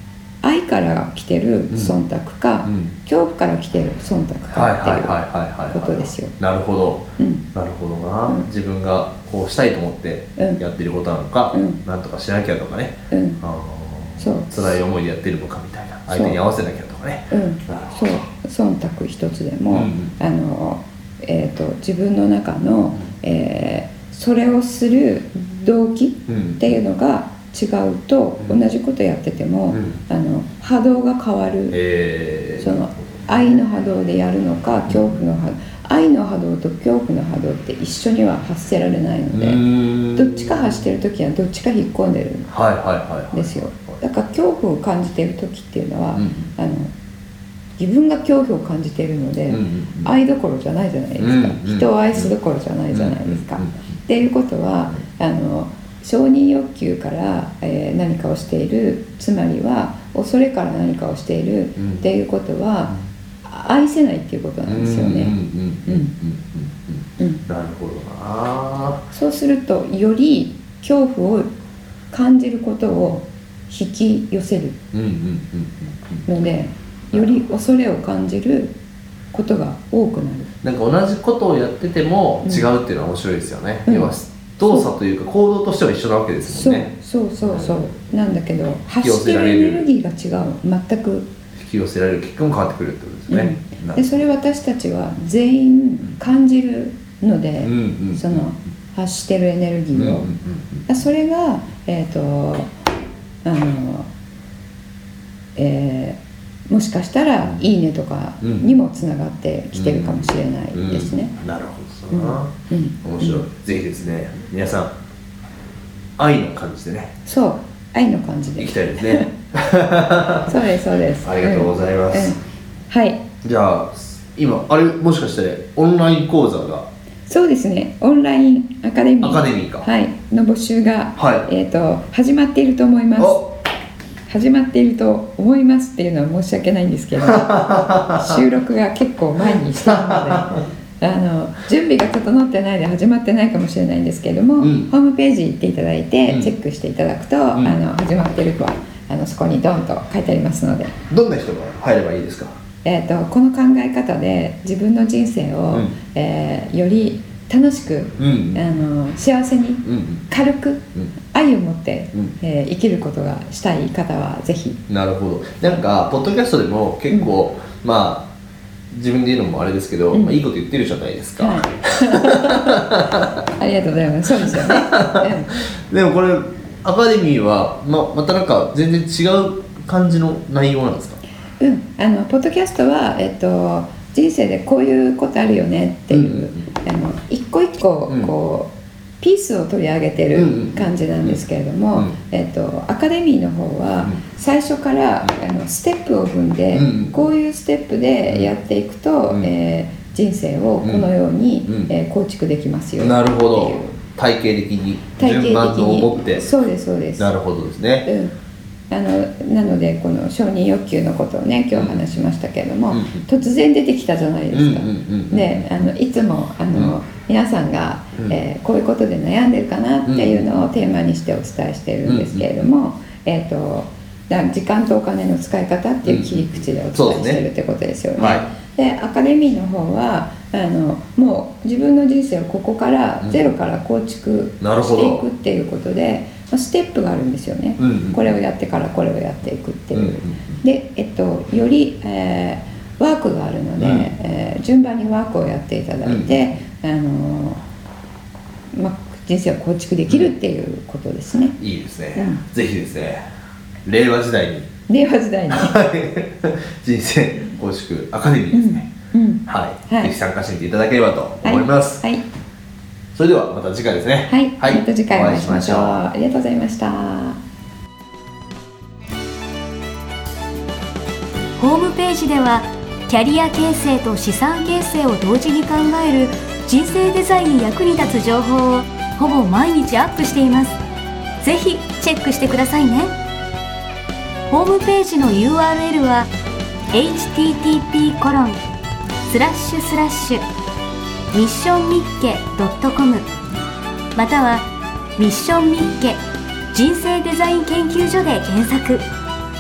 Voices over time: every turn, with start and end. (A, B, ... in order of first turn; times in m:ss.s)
0:00.4-0:05.2 A
0:01.7-0:02.0 B
0:02.6-0:02.9 B
0:04.5-0:18.2 B
0:05.7-0:06.4 A
0:07.2-0:07.5 A
0:10.4-0:10.6 A
0:11.5-0:11.8 A
0:13.1-0:13.4 A
0:14.2-0:14.5 A
0:16.1-0:16.4 A
0:17.3-0:31.8 A
0:19.7-0:20.1 B
0:26.3-0:26.7 B
0:29.7-0:30.0 B
0:31.7-0:32.8 B
0:32.6-0:42.5 A
0:34.9-0:35.2 B
0:39.3-0:40.7 B
0:42.5-0:44.0 B
0:43.3-0:46.9 A
0:46.2-0:46.5 B
0:47.8-1:05.3 A
0:49.5-0:50.1 B
0:51.2-0:52.3 B
0:52.9-0:53.8 B
1:01.8-1:02.0 B
1:04.7-1:09.0 B
1:05.9-1:06.1 A
1:07.2-1:07.4 A
1:09.1-1:11.5 A
1:12.1-1:14.8 A
1:14.9-1:16.2 B
1:16.3-1:18.7 A
1:19.3-1:20.5 A
1:20.6-1:26.9 B
1:23.9-1:24.1 A
1:26.5-1:31.3 A
1:27.4-1:27.8 B
1:29.0-1:29.9 B
1:31.6-1:34.2 B
1:33.3-1:40.3 A
1:37.6-1:38.5 B
1:40.0-1:40.9 B
1:40.9-1:42.7 A
1:43.4-1:44.1 A
1:45.6-1:51.3 A
1:48.4-1:48.8 B
1:49.7-1:55.0 B
1:52.1-1:53.4 A
1:56.2-1:57.1 B
1:57.3-1:59.3 A
1:58.6-2:00.6 B
2:00.5-2:02.4 A
2:01.2-2:02.4 B
2:02.9-2:03.2 A
2:03.4-2:06.9 B
2:07.3-2:13.6 A
2:09.2-2:09.9 B
2:11.2-2:11.5 B
2:14.3-2:31.0 A
2:17.2-2:18.4 B
2:19.8-2:20.6 B
2:24.6-2:24.9 B
2:26.3-2:26.5 B
2:31.1-2:32.6 B
2:32.8-2:44.8 A
2:38.2-2:38.7 B
2:39.8-2:40.2 B
2:44.9-2:48.3 B
2:48.9-2:53.4 B
2:50.1-2:50.4 A
2:51.4-2:52.9 A
2:53.6-2:55.5 A
2:54.3-3:01.2 B
3:01.6-3:24.0 A
3:06.1-3:06.6 B
3:08.1-3:08.3 B
3:10.4-3:11.4 B
3:16.7-3:17.2 B
3:18.3-3:18.5 B
3:20.8-3:21.1 B
3:23.0-3:26.5 B
3:25.2-3:27.3 A
3:27.2-3:28.1 B
3:28.1-3:28.3 A
3:28.9-4:07.6 A
3:31.7-3:32.1 B
3:32.9-3:33.2 B
3:34.5-3:35.7 B
3:40.1-3:40.4 B
3:42.0-3:42.7 B
3:46.0-3:47.4 B
3:48.2-3:48.5 B
3:53.2-3:53.5 B
3:54.6-3:55.3 B
3:57.8-3:58.2 B
3:59.9-4:00.4 B
4:03.8-4:04.1 B
4:06.0-4:06.4 B
4:08.7-4:11.6 A
4:10.1-4:10.3 B
4:11.6-4:13.2 B
4:12.2-4:12.4 A
4:13.9-4:14.7 B
4:14.9-4:15.7 A
4:15.5-4:18.9 B
4:18.5-4:20.1 A
4:19.5-4:22.0 B
4:21.4-4:22.2 A
4:23.1-4:26.0 B
4:24.3-4:27.4 A
4:31.6-4:40.8 C
4:41.4-4:43.1 C
4:44.5-4:46.3 C
4:46.9-4:48.6 C
4:49.3-4:50.4 C
4:51.3-4:53.2 C
4:54.2-4:54.7 C
4:55.2-4:56.2 C
4:56.7-4:59.0 C